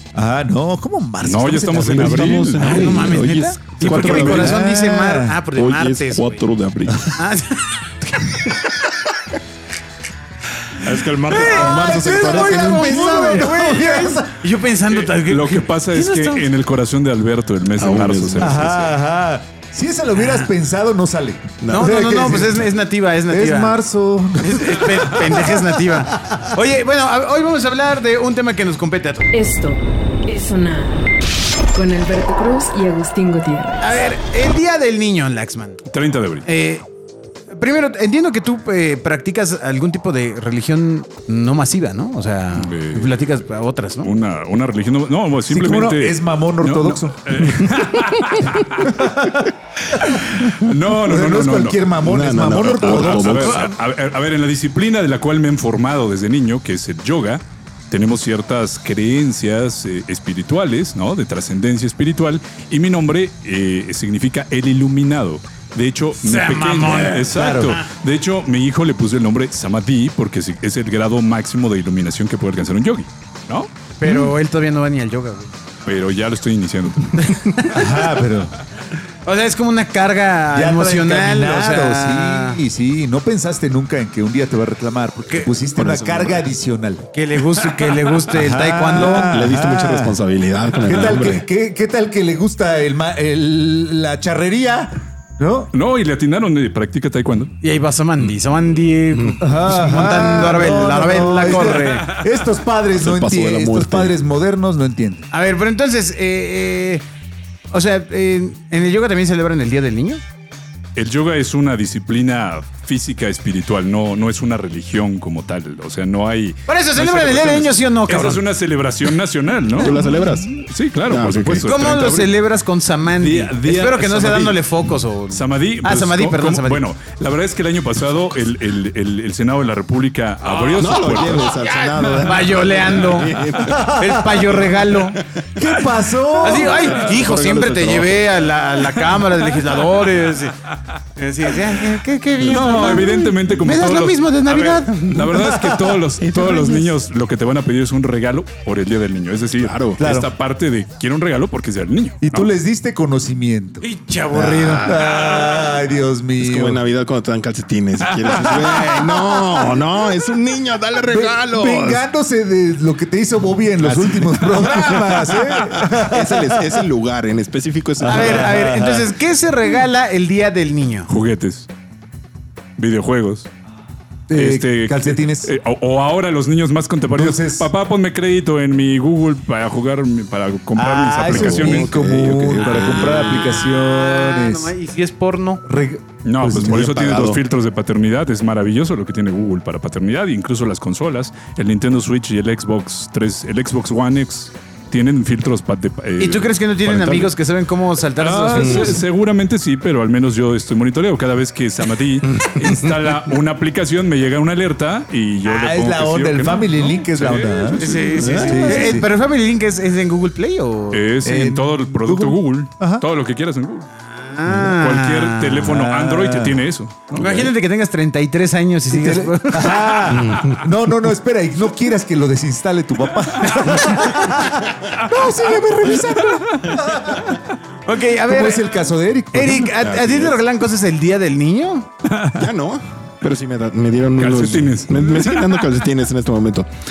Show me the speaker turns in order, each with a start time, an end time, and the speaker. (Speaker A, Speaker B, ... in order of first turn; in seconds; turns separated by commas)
Speaker A: 0.1-3.1, Speaker B: 1.2-3.0, Speaker C: 1.8-4.6, Speaker D: 2.6-6.4, Speaker A: 3.8-5.4, Speaker B: 3.8-4.4, Speaker C: 5.5-7.1, Speaker D: 7.1-8.6, Speaker C: 10.8-13.6, Speaker D: 11.3-16.5, Speaker A: 11.3-14.3, Speaker B: 14.9-18.9, Speaker C: 17.8-18.7, Speaker A: 18.4-22.6, Speaker D: 20.1-20.5, Speaker C: 21.6-21.9, Speaker D: 21.7-23.8, Speaker A: 23.3-25.7, Speaker D: 24.4-29.3, Speaker A: 26.2-26.5, Speaker E: 29.3-31.1, Speaker E: 31.7-33.9, Speaker D: 33.8-35.8, Speaker B: 35.9-36.5, Speaker D: 36.4-36.8, Speaker D: 37.5-44.1, Speaker B: 42.5-43.2, Speaker B: 44.0-49.1, Speaker A: 45.5-47.5, Speaker A: 48.8-49.4, Speaker B: 49.9-51.9, Speaker A: 50.2-53.4, Speaker C: 52.0-53.7, Speaker B: 52.8-73.7, Speaker D: 53.2-53.8, Speaker D: 66.2-67.8, Speaker A: 67.3-67.8, Speaker D: 74.0-75.5, Speaker A: 74.0-74.3, Speaker B: 75.8-77.4, Speaker D: 77.2-78.0, Speaker A: 77.6-78.5, Speaker D: 79.2-82.6, Speaker A: 80.5-87.0, Speaker D: 85.2-86.4, Speaker D: 87.1-89.3, Speaker A: 88.3-90.2, Speaker C: 89.0-91.4, Speaker A: 90.8-95.7, Speaker B: 95.7-97.5, Speaker D: 97.6-102.1, Speaker C: 99.1-99.4, Speaker A: 99.4-105.3, Speaker C: 103.0-104.2, Speaker D: 105.3-107.0, Speaker D: 107.7-110.2, Speaker B: 110.9-122.3, Speaker D: 116.7-118.4, Speaker C: 119.7-122.1, Speaker D: 121.6-126.9, Speaker B: 123.2-124.6, Speaker B: 125.3-131.6, Speaker C: 130.8-133.9, Speaker D: 132.2-133.3, Speaker B: 133.1-133.6, Speaker A: 133.7-134.4, Speaker D: 133.8-135.2, Speaker C: 134.5-134.8, Speaker A: 135.6-136.9, Speaker D: 136.4-140.6, Speaker C: 136.5-138.5, Speaker D: 141.1-145.4, Speaker B: 142.4-152.5, Speaker A: 142.8-143.2, Speaker A: 145.4-146.0, Speaker C: 146.2-147.0, Speaker C: 149.6-150.0, Speaker A: 150.0-150.3, Speaker A: 152.2-153.9, Speaker D: 153.8-154.9, Speaker C: 154.3-155.6, Speaker A: 154.4-156.8, Speaker C: 156.4-162.0, Speaker A: 161.0-166.8, Speaker C: 163.8-168.5, Speaker A: 168.0-169.1, Speaker D: 168.0-171.1, Speaker B: 171.1-171.7, Speaker B: 172.8-173.5, Speaker A: 174.3-175.5, Speaker B: 174.3-181.9, Speaker A: 177.1-177.7, Speaker A: 180.7-184.7, Speaker C: 181.2-183.7, Speaker D: 182.7-185.6, Speaker A: 185.6-187.0, Speaker B: 186.2-197.4, Speaker C: 186.6-187.4, Speaker D: 196.2-199.0, Speaker B: 198.2-208.9, Speaker C: 198.5-199.0, Speaker C: 202.3-203.2, Speaker A: 205.4-209.1, Speaker D: 207.8-211.0, Speaker C: 208.2-208.9, Speaker B: 210.9-213.9, Speaker A: 211.2-213.0, Speaker D: 214.0-215.7, Speaker B: 214.4-217.5, Speaker A: 215.7-216.6, Speaker D: 217.2-220.2, Speaker A: 218.9-227.3, Speaker C: 220.1-220.7, Speaker D: 223.4-224.4, Speaker B: 226.0-226.7, Speaker D: 227.8-228.6, Speaker A: 228.2-229.7, Speaker D: 229.3-231.9, Speaker C: 229.7-230.4, Speaker B: 232.1-232.4, Speaker C: 232.3-236.7, Speaker B: 234.1-235.7